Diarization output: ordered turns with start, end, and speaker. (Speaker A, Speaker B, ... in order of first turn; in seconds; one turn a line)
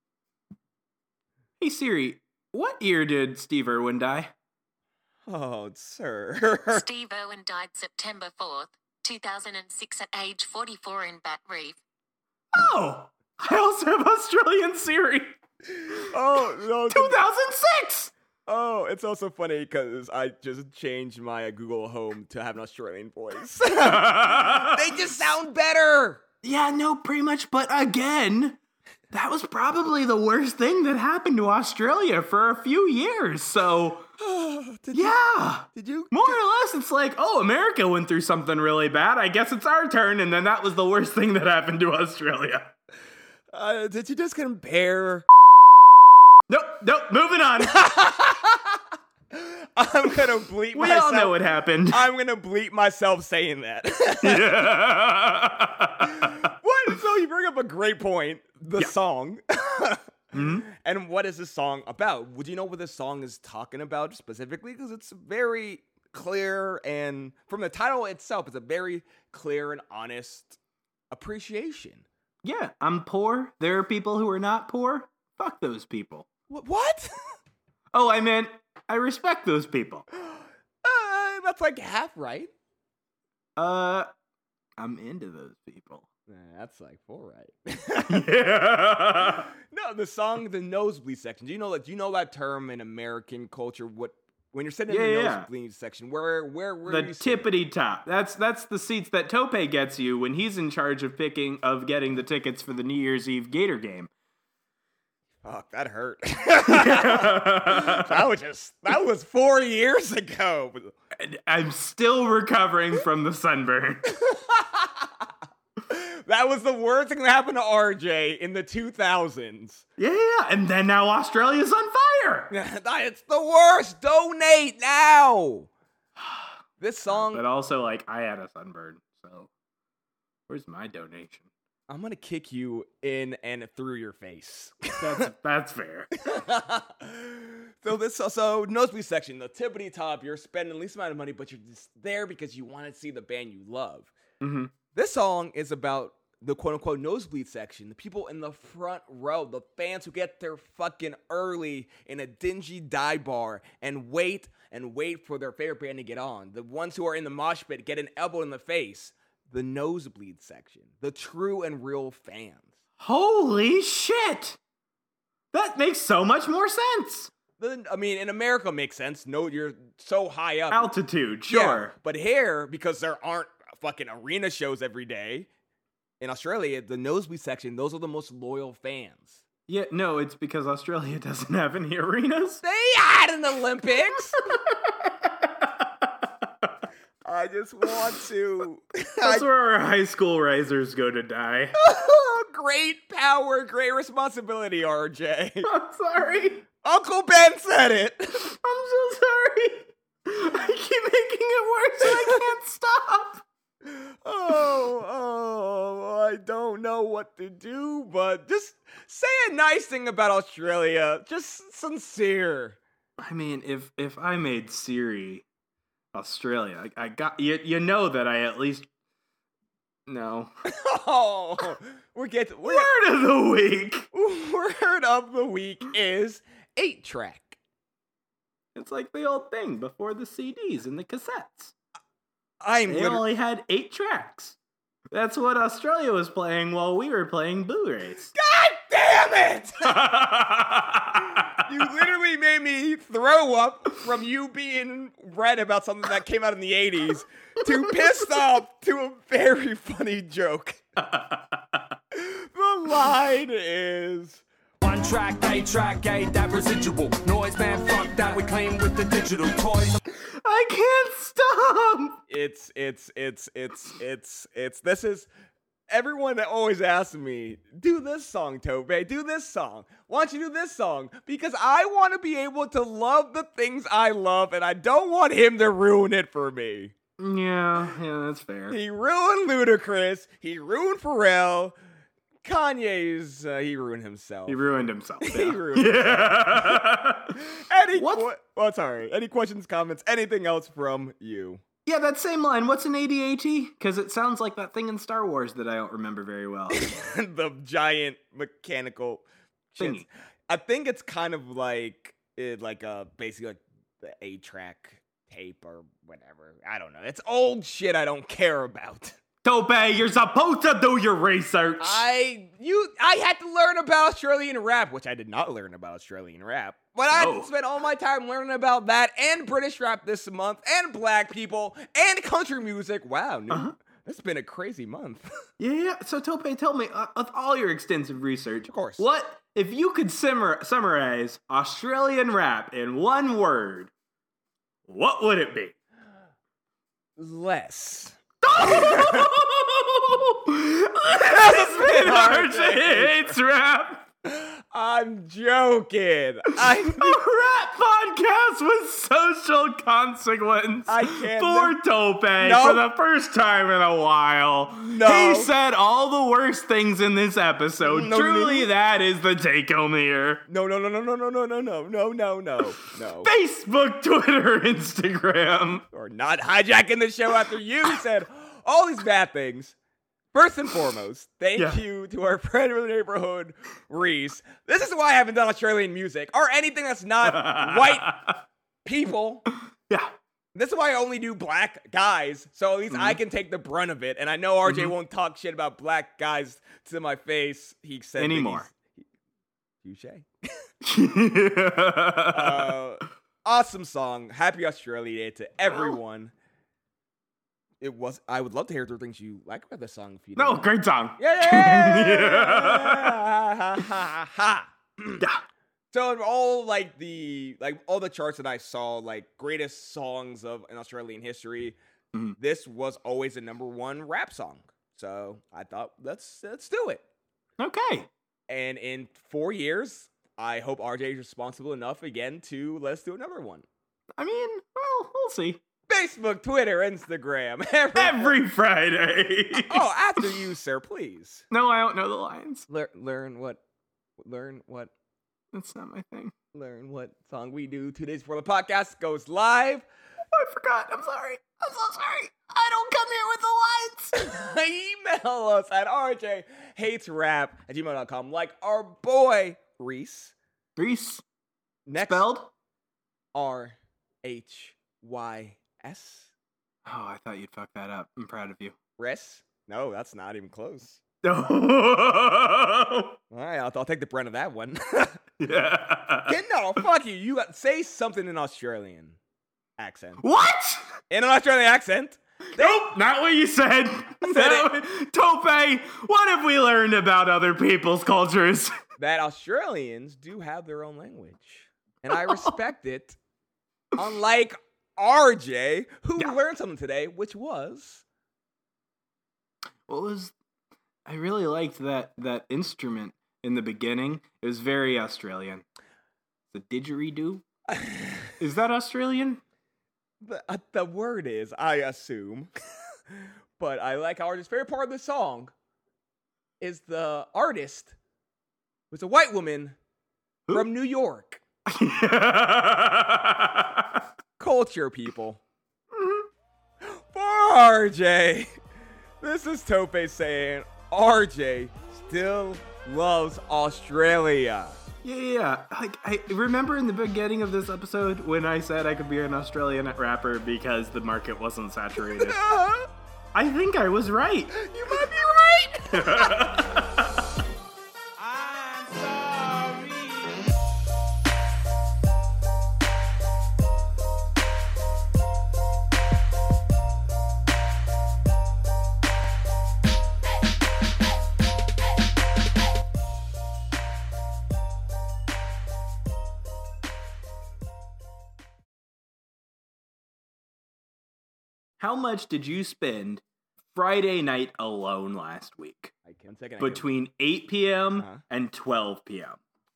Speaker A: 1.6-4.3
Speaker B: 5.3-6.8
Speaker C: 6.7-11.8
Speaker A: 12.5-15.4
Speaker B: 16.1-17.2
Speaker A: 16.9-18.1
Speaker B: 18.5-26.2
Speaker A: 23.8-24.7
Speaker A: 26.4-28.6
Speaker A: 29.1-34.1
Speaker B: 34.2-36.4
Speaker A: 34.9-42.7
Speaker B: 43.5-45.3
Speaker A: 46.5-47.9
Speaker B: 47.6-48.8
Speaker B: 49.3-51.4
Speaker A: 50.7-52.0
Speaker B: 51.9-54.7
Speaker A: 54.2-56.4
Speaker B: 56.1-70.6
Speaker A: 60.3-60.7
Speaker B: 71.1-72.0
Speaker A: 72.4-76.3
Speaker B: 76.5-77.1
Speaker A: 77.9-80.0
Speaker B: 80.2-82.5
Speaker A: 83.6-84.1
Speaker A: 84.8-86.1
Speaker B: 86.3-88.3
Speaker A: 88.1-89.5
Speaker B: 89.7-97.5
Speaker A: 94.9-95.5
Speaker A: 96.9-104.1
Speaker B: 105.4-110.9
Speaker A: 106.7-108.2
Speaker A: 111.2-114.2
Speaker B: 114.3-115.1
Speaker B: 115.9-119.8
Speaker A: 120.0-122.5
Speaker B: 122.5-125.7
Speaker B: 126.8-127.4
Speaker A: 127.1-129.5
Speaker A: 130.5-131.5
Speaker B: 131.9-135.2
Speaker A: 135.0-136.1
Speaker B: 136.2-144.1
Speaker A: 144.4-144.7
Speaker B: 144.9-162.7
Speaker A: 163.0-164.6
Speaker A: 165.5-167.3
Speaker B: 167.6-170.9
Speaker A: 170.7-171.9
Speaker B: 171.5-175.5
Speaker B: 176.2-179.4
Speaker A: 179.7-182.6
Speaker B: 182.6-184.5
Speaker A: 184.5-186.2
Speaker B: 187.3-189.5
Speaker A: 189.2-191.8
Speaker B: 191.8-195.7
Speaker A: 195.6-196.7
Speaker B: 196.8-198.5
Speaker A: 198.5-203.4
Speaker B: 203.9-212.8
Speaker A: 213.2-215.4
Speaker A: 216.1-218.9
Speaker A: 220.1-220.5
Speaker B: 220.7-222.9
Speaker A: 222.7-224.1
Speaker B: 224.1-227.6
Speaker A: 228.8-231.7
Speaker B: 232.6-233.2
Speaker A: 232.9-234.6
Speaker A: 235.1-238.3
Speaker B: 238.3-240.0
Speaker A: 239.9-241.5
Speaker B: 241.5-250.8
Speaker A: 251.1-251.4
Speaker B: 252.2-254.4
Speaker D: 254.8-260.0
Speaker A: 260.2-262.2
Speaker B: 262.3-265.3
Speaker B: 265.9-276.9
Speaker A: 277.2-278.8
Speaker B: 278.7-281.8
Speaker B: 282.4-284.6
Speaker A: 284.5-287.4
Speaker B: 285.2-286.9
Speaker B: 287.4-291.6
Speaker A: 288.0-288.2
Speaker A: 291.9-296.9
Speaker B: 296.7-309.2
Speaker A: 299.8-300.1
Speaker A: 309.4-312.0
Speaker B: 311.8-325.3
Speaker A: 317.1-317.5
Speaker A: 323.5-323.8
Speaker A: 325.6-333.9
Speaker B: 328.7-329.1
Speaker A: 334.9-335.8
Speaker B: 337.2-339.4
Speaker A: 338.4-344.1
Speaker B: 341.1-343.4
Speaker B: 344.3-347.2
Speaker A: 346.6-360.4
Speaker B: 350.9-351.8
Speaker B: 352.4-352.8
Speaker B: 354.9-355.5
Speaker B: 357.9-358.7
Speaker B: 360.5-363.3
Speaker A: 363.2-365.9
Speaker B: 365.9-369.8
Speaker B: 370.3-378.2
Speaker A: 377.2-378.4
Speaker B: 378.9-379.5
Speaker A: 379.9-380.1
Speaker B: 380.6-389.0
Speaker A: 382.9-383.2
Speaker A: 384.7-384.9
Speaker A: 388.2-388.7
Speaker B: 389.8-390.3
Speaker A: 390.8-392.7
Speaker B: 392.3-396.3
Speaker A: 395.6-396.0
Speaker B: 397.8-400.7
Speaker A: 400.4-403.2
Speaker B: 401.2-405.2
Speaker B: 405.9-411.8
Speaker B: 412.4-417.0
Speaker A: 417.6-418.1
Speaker B: 418.5-423.6
Speaker A: 424.2-425.6
Speaker B: 425.9-428.4
Speaker A: 427.9-429.9
Speaker B: 429.7-431.5
Speaker A: 431.5-432.7
Speaker B: 432.7-433.6
Speaker B: 434.2-434.9
Speaker A: 435.5-436.3
Speaker B: 436.5-439.8
Speaker A: 440.3-444.2
Speaker B: 444.1-450.4
Speaker A: 450.8-451.2
Speaker B: 451.9-452.3
Speaker A: 452.0-452.5
Speaker B: 453.3-456.3
Speaker A: 456.9-458.8
Speaker B: 459.0-461.0
Speaker A: 461.2-463.2
Speaker B: 463.3-465.2
Speaker A: 465.4-466.4
Speaker B: 466.3-469.2
Speaker B: 469.8-470.2
Speaker A: 470.2-470.8
Speaker B: 471.1-473.0
Speaker A: 472.5-478.8
Speaker B: 474.2-474.7
Speaker B: 479.0-483.2
Speaker A: 482.1-482.5
Speaker B: 484.0-488.0
Speaker A: 489.9-490.3
Speaker A: 491.1-495.6
Speaker A: 496.5-497.4
Speaker B: 497.8-498.1
Speaker A: 498.4-499.4
Speaker B: 500.2-502.5
Speaker B: 503.6-505.5
Speaker B: 506.6-507.9
Speaker B: 508.9-509.8
Speaker B: 510.5-511.4
Speaker A: 511.7-514.0
Speaker B: 514.4-515.4
Speaker A: 515.9-516.3
Speaker B: 516.8-518.5
Speaker B: 519.2-524.8
Speaker A: 525.0-532.4
Speaker B: 532.1-532.9
Speaker A: 533.3-535.0
Speaker B: 534.6-536.4
Speaker A: 535.9-537.1
Speaker A: 539.1-539.8
Speaker A: 561.8-563.2
Speaker A: 563.7-565.9
Speaker B: 566.1-566.9
Speaker A: 566.6-569.4